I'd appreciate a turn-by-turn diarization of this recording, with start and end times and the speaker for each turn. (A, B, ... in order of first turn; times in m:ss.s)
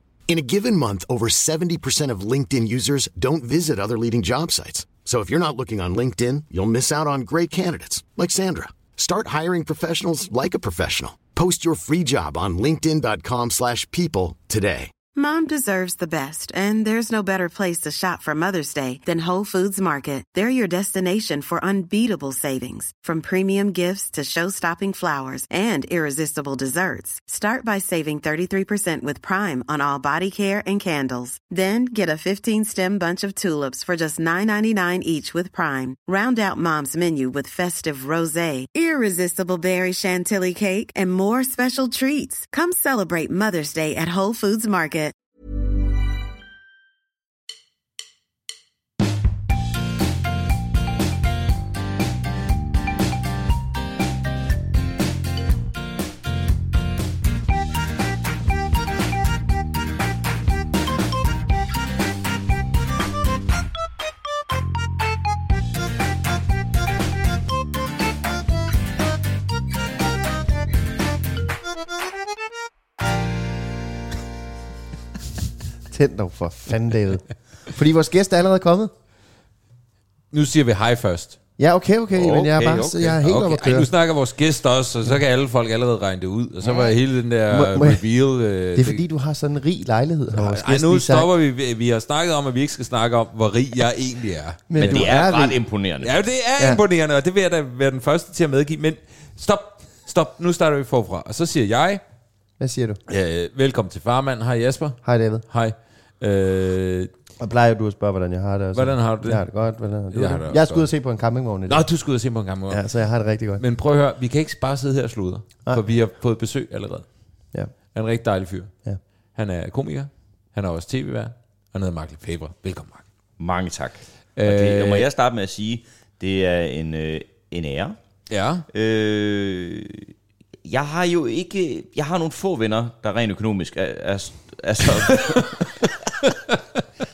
0:00.3-0:14.9 A
0:15.1-0:45.1 B
1:15.9-1:18.9 C
1:20.3-1:21.4 D
1:21.6-1:23.9 C
1:22.1-1:23.1 E
1:23.2-1:29.0 D
1:27.5-1:28.0 C
1:28.7-1:31.3 C
1:30.3-1:35.1 D
1:34.7-1:35.6 C
1:34.8-1:36.1 E
1:36.0-1:42.0 D
1:42.6-1:43.0 C
1:43.1-1:47.1 D
1:45.0-1:45.4 C
1:47.4-1:51.9 C
1:48.7-1:49.5 D
1:50.1-1:50.8 D
1:51.7-1:52.8 D
1:52.7-1:53.6 C
1:53.6-1:57.0 D
1:57.9-1:58.7 D
1:59.3-2:03.0 D
2:03.4-2:08.0 E
2:04.4-2:05.0 D
2:08.3-2:08.6 D
2:08.7-2:10.1 E
2:10.6-2:15.6 E
2:15.4-2:15.6 D
2:16.2-2:16.6 D